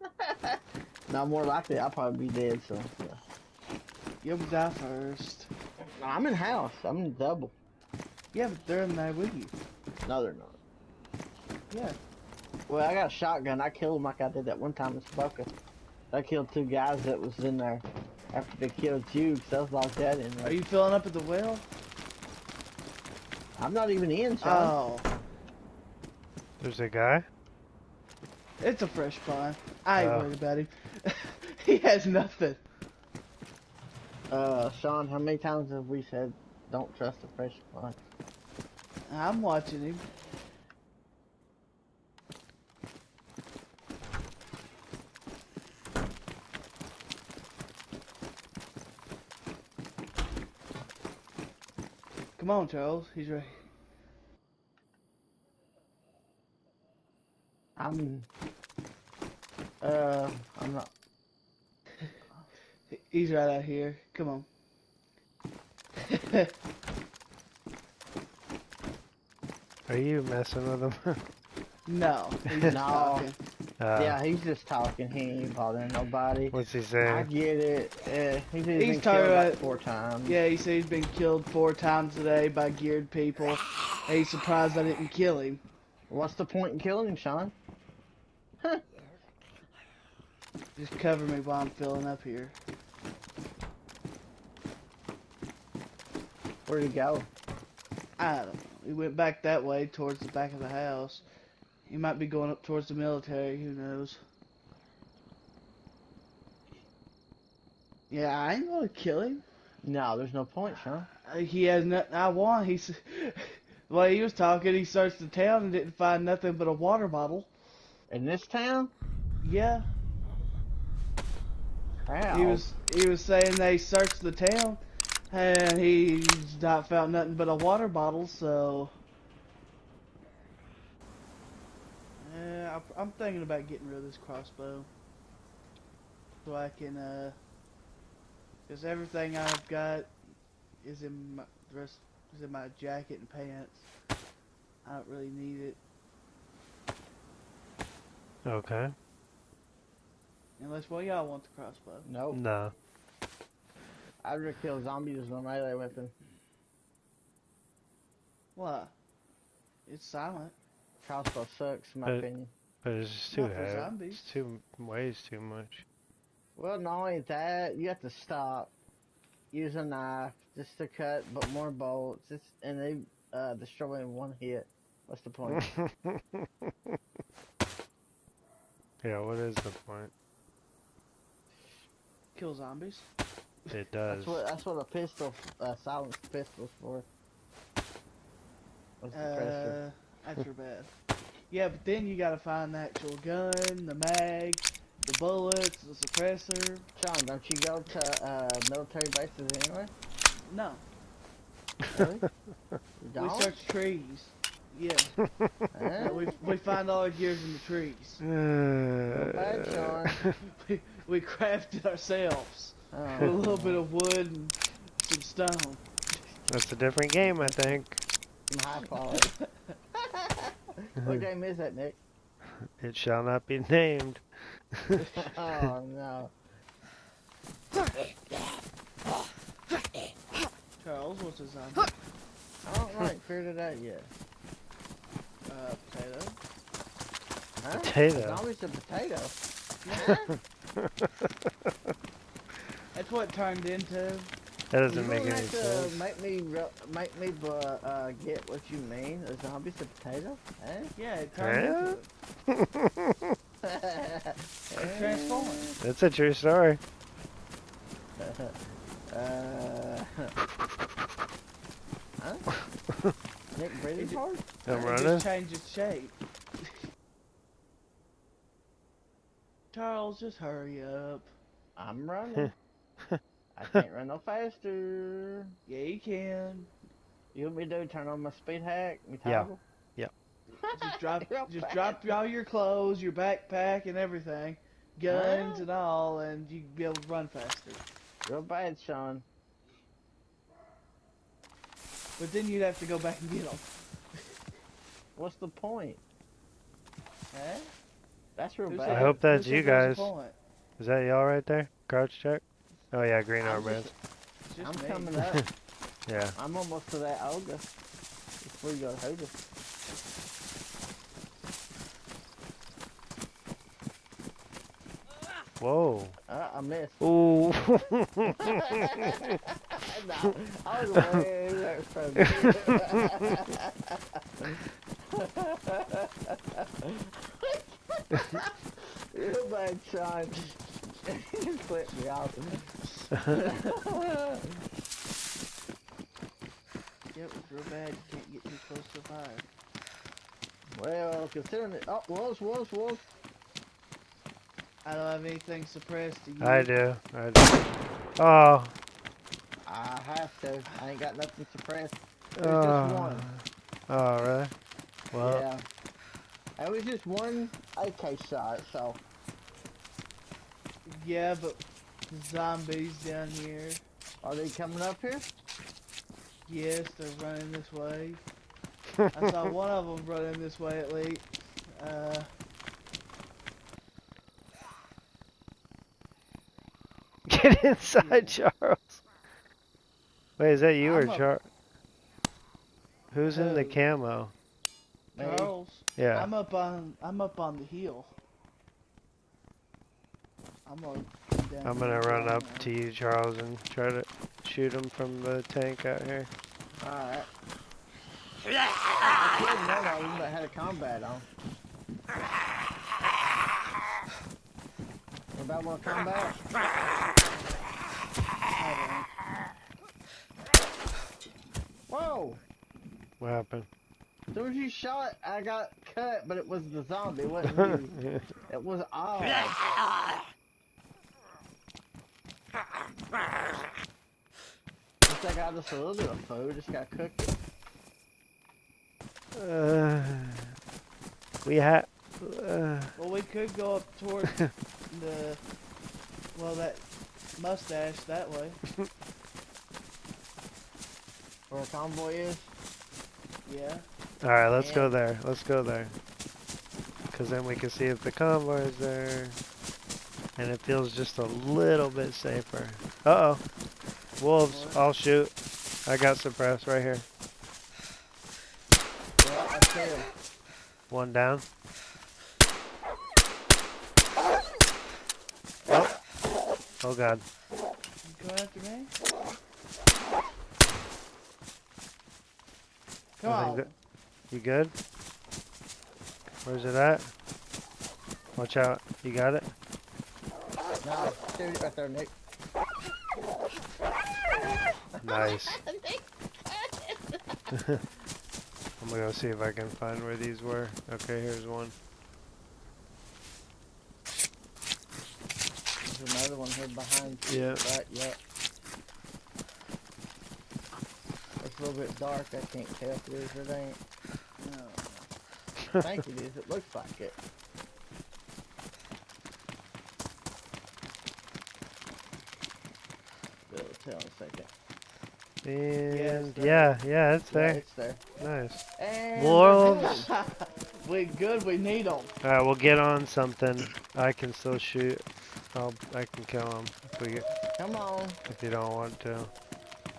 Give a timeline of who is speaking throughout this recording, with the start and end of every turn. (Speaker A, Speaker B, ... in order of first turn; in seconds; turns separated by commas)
Speaker A: 0.2-3.2, Speaker B: 4.2-5.5, Speaker A: 6.0-7.5, Speaker B: 8.3-9.5, Speaker A: 10.1-10.6, Speaker B: 11.7-12.0, Speaker A: 12.7-15.5, Speaker A: 16.1-20.6, Speaker B: 20.4-21.7, Speaker A: 23.6-24.8, Speaker B: 24.4-25.1, Speaker C: 26.6-27.2, Speaker B: 28.6-32.6, Speaker C: 30.0-30.3, Speaker A: 34.3-38.0, Speaker B: 39.1-40.0, Speaker B: 52.4-53.6, Speaker A: 57.8-58.3, Speaker A: 59.8-60.9, Speaker B: 62.3-64.5, Speaker B: 66.0-66.5, Speaker C: 69.9-71.2, Speaker B: 71.9-73.4, Speaker A: 72.7-73.3, Speaker C: 73.8-74.2, Speaker A: 74.0-80.4, Speaker C: 76.5-77.3, Speaker B: 78.7-79.7, Speaker B: 80.2-85.6, Speaker A: 86.1-87.5, Speaker B: 90.8-92.6, Speaker A: 96.7-97.3, Speaker B: 98.2-101.2, Speaker B: 101.9-104.2, Speaker B: 108.1-109.4, Speaker A: 109.8-111.1, Speaker B: 111.2-117.5, Speaker A: 118.1-118.9, Speaker B: 119.4-119.9, Speaker A: 122.1-122.6, Speaker B: 122.3-128.9, Speaker B: 132.2-134.9, Speaker B: 136.4-137.4, Speaker B: 138.7-140.1, Speaker B: 140.8-143.9, Speaker B: 144.8-145.8, Speaker C: 148.4-148.9, Speaker B: 150.6-152.1, Speaker A: 152.0-152.4, Speaker C: 152.3-152.7, Speaker A: 154.2-156.1, Speaker B: 158.6-158.9, Speaker B: 159.9-160.6, Speaker A: 161.0-162.5, Speaker C: 162.8-165.8, Speaker B: 163.3-164.4, Speaker A: 166.6-168.7, Speaker A: 169.5-175.7, Speaker C: 175.5-176.9, Speaker C: 179.0-180.1, Speaker B: 182.3-183.1, Speaker C: 183.7-184.4, Speaker A: 184.1-187.1, Speaker A: 189.0-189.8, Speaker B: 189.1-190.9, Speaker B: 191.5-196.9, Speaker A: 197.0-199.9, Speaker B: 200.4-200.8, Speaker A: 201.9-202.3, Speaker A: 203.0-203.6, Speaker B: 203.2-205.2, Speaker A: 205.7-206.3, Speaker B: 206.0-208.2, Speaker C: 208.2-210.3, Speaker A: 209.1-210.2, Speaker B: 210.4-215.8, Speaker A: 212.9-213.8, Speaker C: 216.5-218.0, Speaker A: 217.2-217.8, Speaker A: 218.5-219.3, Speaker B: 219.1-219.8, Speaker A: 220.0-222.0, Speaker C: 222.8-224.2, Speaker C: 224.7-225.7, Speaker A: 225.2-226.3, Speaker B: 230.8-231.9, Speaker A: 232.7-234.1, Speaker B: 235.5-236.4, Speaker A: 237.6-239.4, Speaker C: 237.7-238.4, Speaker A: 239.9-240.3, Speaker C: 240.0-241.7, Speaker B: 242.9-244.3, Speaker C: 244.7-246.0, Speaker A: 244.9-250.9, Speaker B: 251.0-252.1, Speaker C: 251.4-252.0, Speaker C: 252.5-253.3, Speaker A: 253.6-255.7, Speaker B: 254.8-255.7, Speaker C: 255.8-256.8, Speaker A: 258.2-258.6, Speaker A: 259.1-260.3, Speaker A: 262.2-262.5, Speaker A: 263.5-264.6, Speaker B: 264.0-266.8, Speaker C: 264.6-265.3, Speaker B: 269.7-271.3, Speaker A: 271.8-272.5, Speaker A: 273.6-275.5, Speaker B: 275.7-276.7, Speaker A: 277.3-279.6, Speaker C: 279.2-280.1, Speaker A: 280.6-282.1, Speaker B: 280.7-287.8, Speaker A: 285.1-285.7, Speaker A: 288.2-289.3, Speaker B: 292.2-293.7, Speaker A: 295.2-296.0, Speaker B: 297.3-297.7, Speaker A: 298.4-299.2, Speaker B: 298.7-300.4, Speaker C: 298.9-300.1, Speaker C: 300.8-303.9, Speaker B: 303.4-303.9, Speaker B: 304.5-305.4, Speaker A: 304.6-305.4, Speaker C: 306.1-306.4, Speaker A: 306.4-307.7, Speaker A: 308.4-309.4, Speaker C: 315.6-316.2, Speaker A: 316.3-317.1, Speaker C: 317.0-319.4, Speaker A: 318.5-328.5, Speaker C: 320.9-321.2, Speaker C: 322.2-322.8, Speaker A: 329.1-332.7, Speaker A: 333.3-334.6, Speaker B: 337.1-339.5, Speaker A: 340.7-343.1, Speaker B: 344.8-346.7, Speaker C: 346.4-347.6, Speaker C: 348.2-348.7, Speaker A: 349.6-353.3, Speaker C: 352.4-354.5, Speaker C: 355.1-355.5, Speaker A: 355.2-355.6, Speaker A: 356.6-359.0, Speaker B: 360.9-363.8, Speaker A: 364.2-365.3, Speaker B: 366.5-368.2, Speaker B: 369.1-372.3, Speaker C: 377.3-379.0, Speaker B: 378.0-378.4, Speaker C: 380.4-381.5, Speaker B: 380.8-381.2, Speaker C: 383.1-384.3, Speaker B: 383.3-383.8, Speaker A: 385.1-385.5, Speaker B: 385.2-388.1, Speaker C: 386.0-386.3, Speaker B: 390.7-392.7, Speaker C: 391.6-396.3, Speaker A: 396.8-397.3, Speaker A: 399.0-401.3, Speaker A: 405.3-406.4, Speaker B: 408.6-409.1, Speaker A: 411.9-412.4, Speaker C: 413.2-413.7, Speaker A: 414.3-418.0, Speaker C: 417.5-418.2, Speaker A: 418.5-419.6, Speaker A: 425.1-427.3, Speaker C: 429.4-430.4, Speaker C: 431.4-432.9, Speaker B: 433.0-434.4, Speaker B: 434.9-435.4, Speaker B: 436.3-436.9, Speaker B: 437.4-438.6, Speaker A: 441.5-442.5, Speaker B: 443.4-443.9, Speaker C: 444.2-446.0, Speaker A: 444.5-445.0, Speaker C: 447.1-449.4, Speaker C: 450.4-453.4, Speaker C: 454.2-455.3, Speaker B: 454.4-454.9, Speaker C: 455.9-457.1, Speaker A: 459.2-460.1, Speaker C: 460.9-461.4, Speaker C: 465.7-465.9, Speaker C: 466.8-467.2, Speaker B: 468.0-468.9, Speaker B: 473.2-473.7, Speaker C: 473.2-473.7, Speaker C: 474.3-474.7, Speaker C: 476.4-477.1, Speaker C: 478.4-479.5, Speaker A: 480.8-482.1, Speaker A: 485.0-487.2, Speaker C: 485.0-485.6, Speaker C: 487.5-487.8, Speaker C: 488.8-491.7, Speaker A: 495.9-498.2, Speaker C: 497.3-497.6, Speaker A: 501.4-503.8, Speaker B: 504.4-505.1, Speaker A: 505.8-507.2, Speaker A: 513.5-514.5, Speaker C: 515.4-517.6, Speaker B: 515.9-516.8, Speaker A: 517.3-518.0, Speaker C: 518.2-520.1, Speaker A: 518.8-520.1, Speaker B: 519.8-522.1, Speaker C: 522.2-527.3, Speaker A: 527.6-528.2, Speaker C: 528.3-529.3